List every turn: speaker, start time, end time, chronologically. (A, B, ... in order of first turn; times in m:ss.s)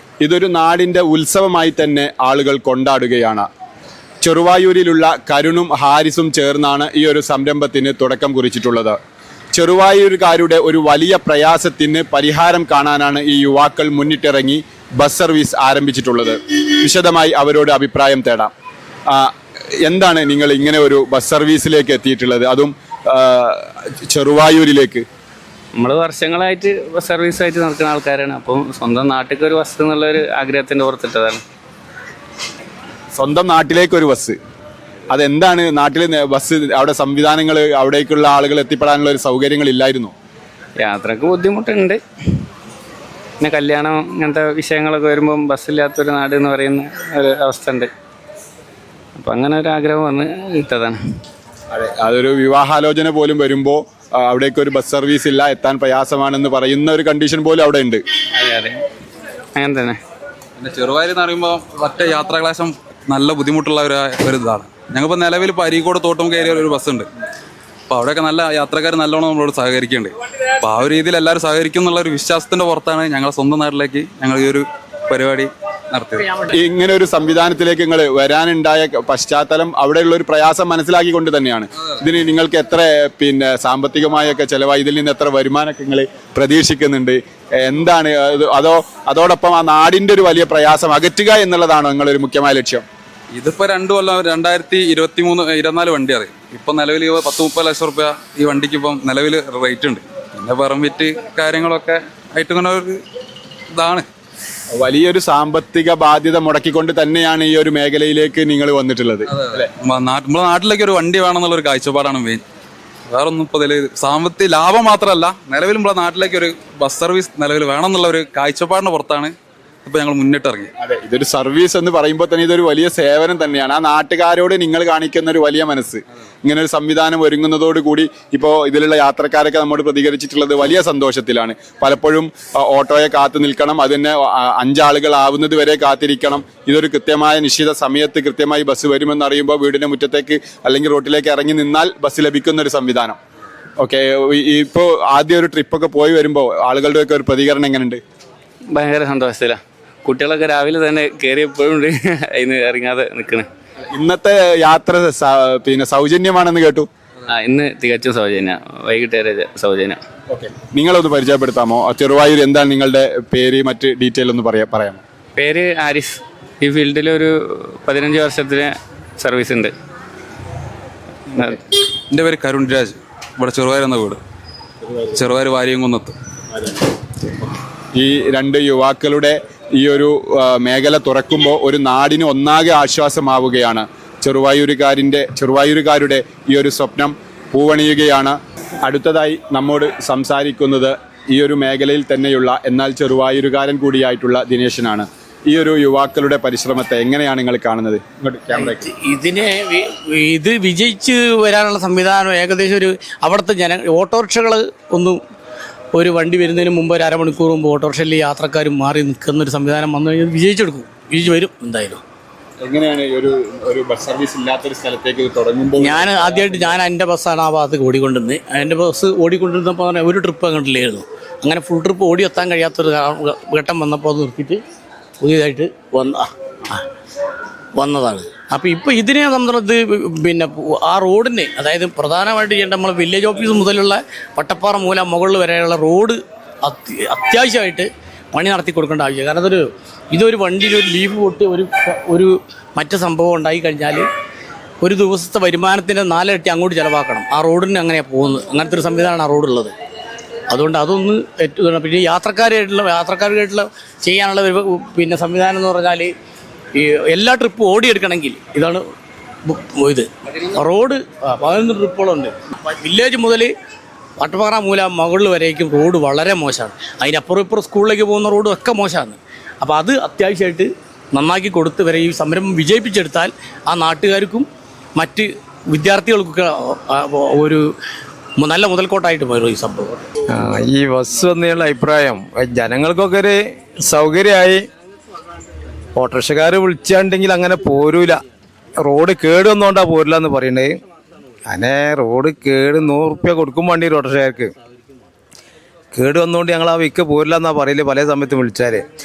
0:00.2-0:03.5 A
0:04.2-0:09.0 A
0:09.6-0:18.5 A
0:19.9-0:25.0 A
0:25.8-0:31.4 B
0:33.2-0:34.4 A
0:35.1-0:40.1 A
0:40.8-0:42.0 B
0:43.4-0:47.9 B
0:49.2-0:51.0 B
0:51.7-0:58.0 A
0:58.4-0:58.8 B
0:59.6-1:00.0 B
1:00.6-1:07.1 C
1:07.9-1:16.4 C
1:16.5-1:32.8 A
1:33.3-1:43.0 C
1:43.7-1:44.1 C
1:44.7-1:49.7 A
1:49.4-1:52.4 C
1:53.1-2:00.7 C
2:00.8-2:23.2 A
2:23.8-2:28.0 A
2:28.7-2:33.5 B
2:33.9-2:36.9 A
2:37.3-2:40.0 B
2:40.3-2:45.0 A
2:45.4-2:47.3 B
2:47.8-2:49.7 B
2:51.3-2:51.6 B
2:52.1-2:54.2 C
2:55.1-2:56.2 C
2:58.0-3:18.9 A
3:18.5-3:25.2 D
3:26.0-3:32.0 D
3:32.6-3:36.4 A
3:35.8-3:44.6 D
3:45.2-3:46.8 D
3:47.8-4:04.0 D
4:04.8-4:09.7 D
4:10.5-4:16.1 D
4:16.8-4:18.8 D
4:19.5-4:23.5 D
4:24.2-4:37.6 D
4:38.4-4:40.0 D
4:40.4-4:44.6 E
4:46.0-4:48.2 E
4:48.8-4:50.8 E
4:51.5-4:54.5 E
4:55.9-4:58.8 E